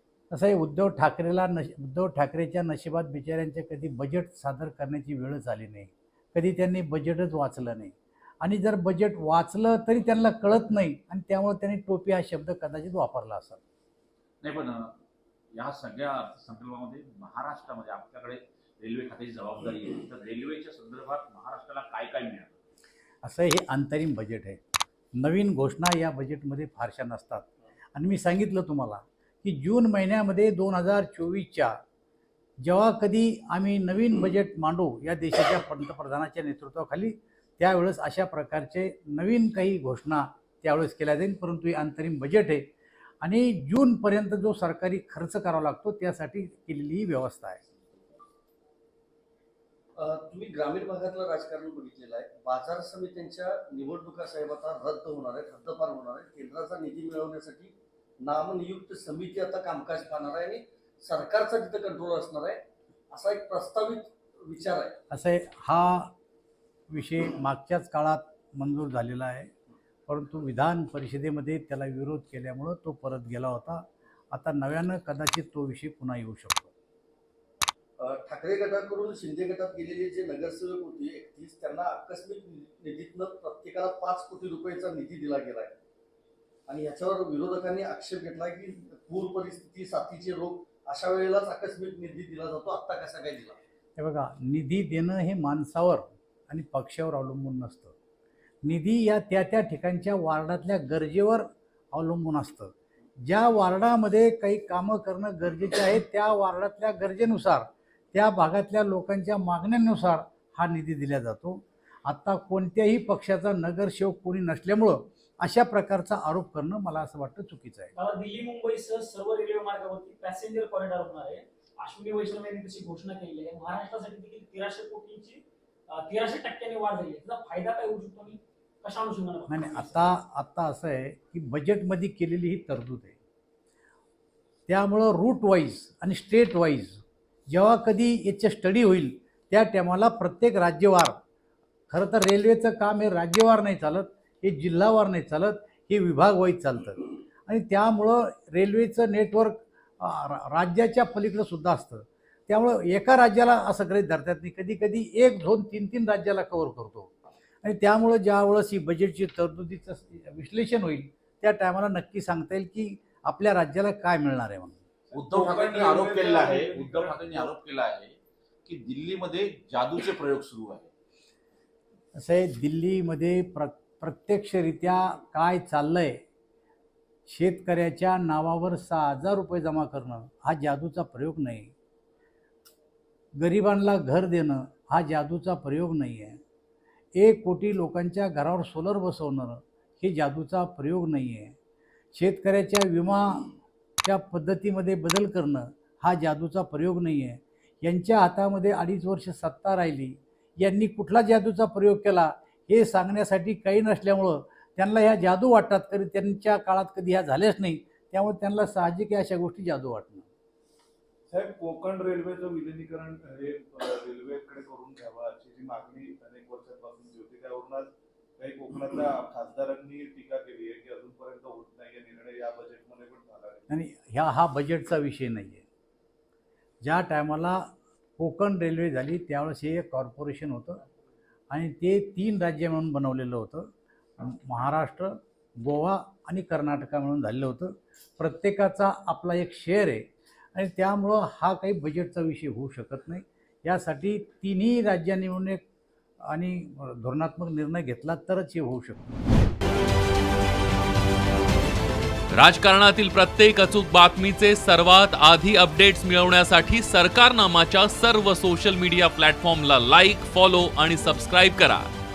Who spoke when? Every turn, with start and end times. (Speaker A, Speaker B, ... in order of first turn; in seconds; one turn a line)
Speaker A: 0.3-13.6
Speaker B: 14.4-14.9
Speaker B: 15.5-22.5
Speaker A: 23.2-24.6
Speaker A: 25.2-31.7
Speaker A: 32.6-42.6
Speaker A: 43.2-47.6
Speaker C: 50.0-62.6
Speaker C: 63.1-65.0
Speaker A: 65.1-66.1
Speaker A: 66.9-69.5
Speaker A: 70.1-73.8
Speaker A: 74.3-76.7
Speaker C: 78.0-85.8
Speaker C: 86.7-93.6
Speaker A: 94.0-97.9
Speaker A: 98.6-102.7
Speaker A: 103.2-117.9
Speaker D: 118.0-130.1
Speaker A: 129.5-133.2
Speaker A: 134.7-137.0
Speaker A: 137.5-141.1
Speaker A: 141.9-157.1
Speaker A: 157.6-164.8
Speaker E: 165.2-167.5
Speaker B: 165.2-168.1
Speaker B: 168.7-170.8
Speaker A: 172.2-176.2
Speaker A: 177.3-181.7
Speaker A: 183.4-186.4
Speaker A: 187.2-191.5
Speaker A: 192.1-193.5
Speaker A: 194.0-210.3
Speaker E: 211.3-223.7
Speaker A: 223.7-225.6
Speaker A: 226.8-230.8
Speaker A: 231.5-233.7
Speaker A: 234.2-235.1
Speaker A: 235.6-245.6
Speaker A: 246.3-249.0
Speaker F: 252.3-261.9